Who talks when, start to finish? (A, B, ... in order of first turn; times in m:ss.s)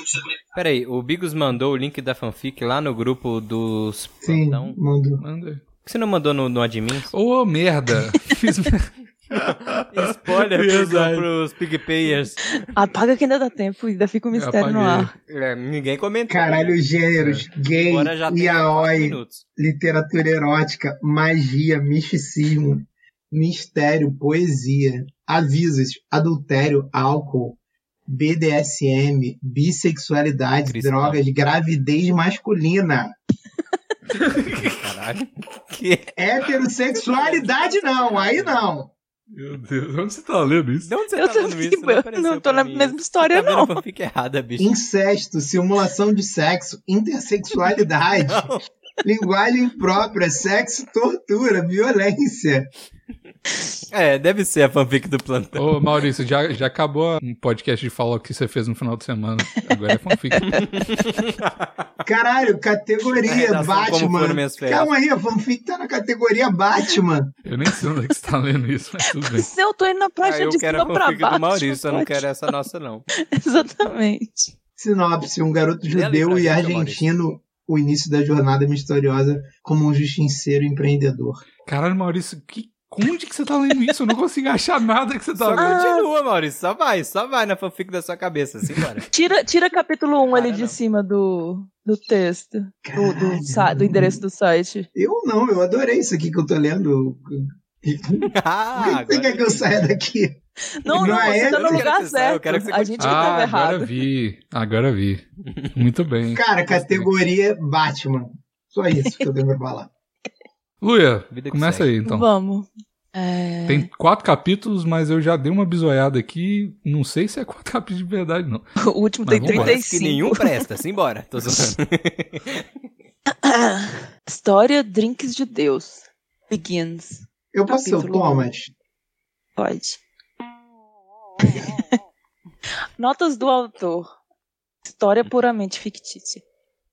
0:00.5-0:04.8 A
0:04.2-0:05.2 B
0:05.2-0:05.6 C
0:05.8-0:07.1 A
0:07.1-0:11.3 C
0:09.8-0:12.6 A
0:12.7-0:15.2 D
0:14.3-0:15.1 C
0:15.3-0:16.8 A
0:16.3-0:33.1 B
0:17.2-0:17.4 C
0:17.6-0:19.4 A
0:30.7-0:31.2 A
0:34.2-0:34.8 C
0:34.6-0:36.2 A
0:36.2-0:38.9 B
0:37.0-0:38.7 A
0:39.3-0:40.9 C
0:40.8-0:44.7 A
0:41.2-0:43.8 D
0:44.6-0:52.7 B
0:48.2-0:48.6 A
0:53.9-0:55.9 A
0:55.6-1:00.8 C
1:00.3-1:00.6 D
1:00.5-1:01.8 A
1:02.0-1:07.3 B
1:03.2-1:04.9 A
1:07.4-1:09.5 C
1:09.2-1:12.2 D
1:10.2-1:13.1 A
1:13.1-1:14.5 D
1:14.8-1:21.4 B
1:15.9-1:17.1 A
1:21.6-1:25.8 C
1:25.4-1:29.1 A
1:25.6-1:26.1 D
1:29.1-1:34.9 D
1:30.3-1:30.8 A
1:32.8-1:34.2 B
1:35.0-1:41.8 B
1:38.3-1:39.9 A
1:40.8-1:43.9 D
1:41.1-1:43.5 A
1:43.0-1:47.0 C
1:46.3-1:49.9 B
1:50.8-1:52.3 C
1:51.3-1:51.9 A
1:52.0-1:53.9 D
1:53.7-1:58.7 C
1:58.8-2:00.6 D
1:59.2-1:59.8 C
1:59.4-2:02.6 A
2:03.3-2:08.5 D
2:07.5-2:08.7 B
2:09.6-2:10.0 D
2:11.4-2:11.8 D
2:13.0-2:14.1 D
2:14.8-2:16.4 D